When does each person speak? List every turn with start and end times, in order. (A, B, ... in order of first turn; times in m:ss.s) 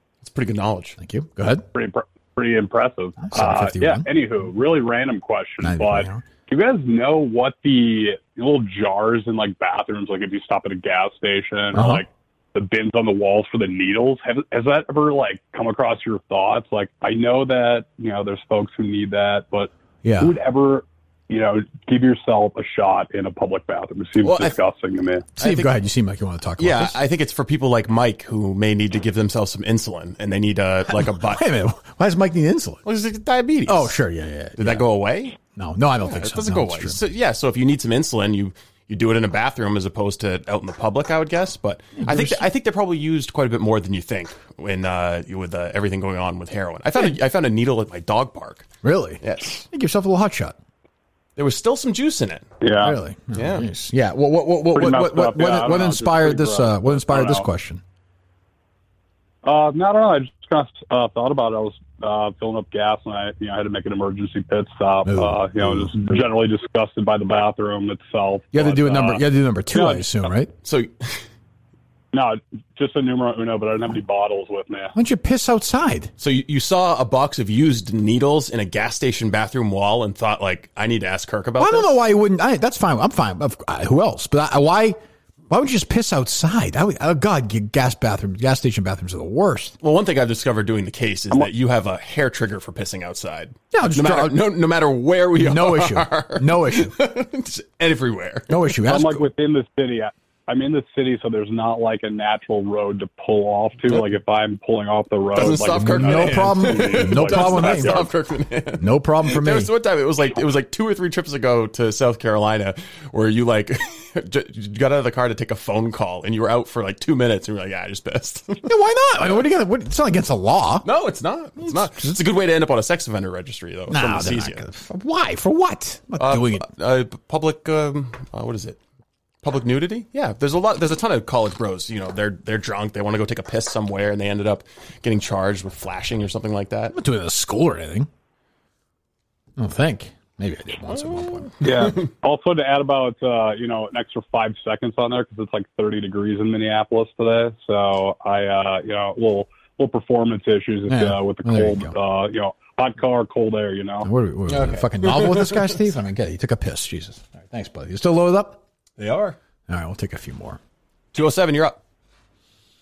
0:00.2-0:01.0 A
0:01.0-0:01.7 B
0:01.7-0:25.3 C
0:03.2-0:04.1 B
0:05.6-0:06.2 B
0:11.7-0:12.0 B
0:20.0-0:20.4 B
0:24.2-0:24.6 A
0:25.4-0:25.7 A
0:25.4-0:27.0 B
0:26.6-0:31.4 A
0:30.9-0:32.8 B
0:32.8-0:33.9 A
0:33.7-0:34.9 B
0:34.6-0:35.4 A
0:35.5-0:37.0 B
0:36.0-0:48.7 A
0:42.0-0:42.5 B
0:48.8-0:50.6 B
0:49.2-0:49.7 A
0:51.4-0:52.5 A
0:52.6-0:53.0 C
0:52.8-0:57.8 B
0:53.3-0:53.7 A
0:54.7-0:57.5 C
0:59.4-1:10.2 C
1:05.1-1:06.1 B
1:08.5-1:10.5 B
1:10.6-1:11.2 A
1:12.1-1:14.9 C
1:14.9-1:16.1 B
1:16.2-1:21.9 A
1:21.6-1:25.0 B
1:25.5-1:29.8 B
1:29.8-1:38.6 A
1:33.7-1:34.4 B
1:35.4-1:36.9 B
1:38.5-1:39.3 B
1:38.9-1:48.1 C
1:45.4-1:58.6 A
1:45.6-1:48.1 B
1:48.8-1:49.7 B
1:58.6-2:00.9 B
2:00.8-2:04.6 A
2:01.6-2:02.2 B
2:03.9-2:06.7 B
2:06.2-2:08.8 A
2:09.4-2:16.9 A
2:16.9-2:18.1 B
2:19.6-2:21.5 B
2:21.3-2:22.1 A
2:21.6-2:34.1 C
2:30.9-2:32.0 B
2:34.0-2:38.6 B
2:34.5-2:35.8 A
2:39.0-2:39.4 A
2:39.7-2:40.6 B
2:41.1-2:41.8 A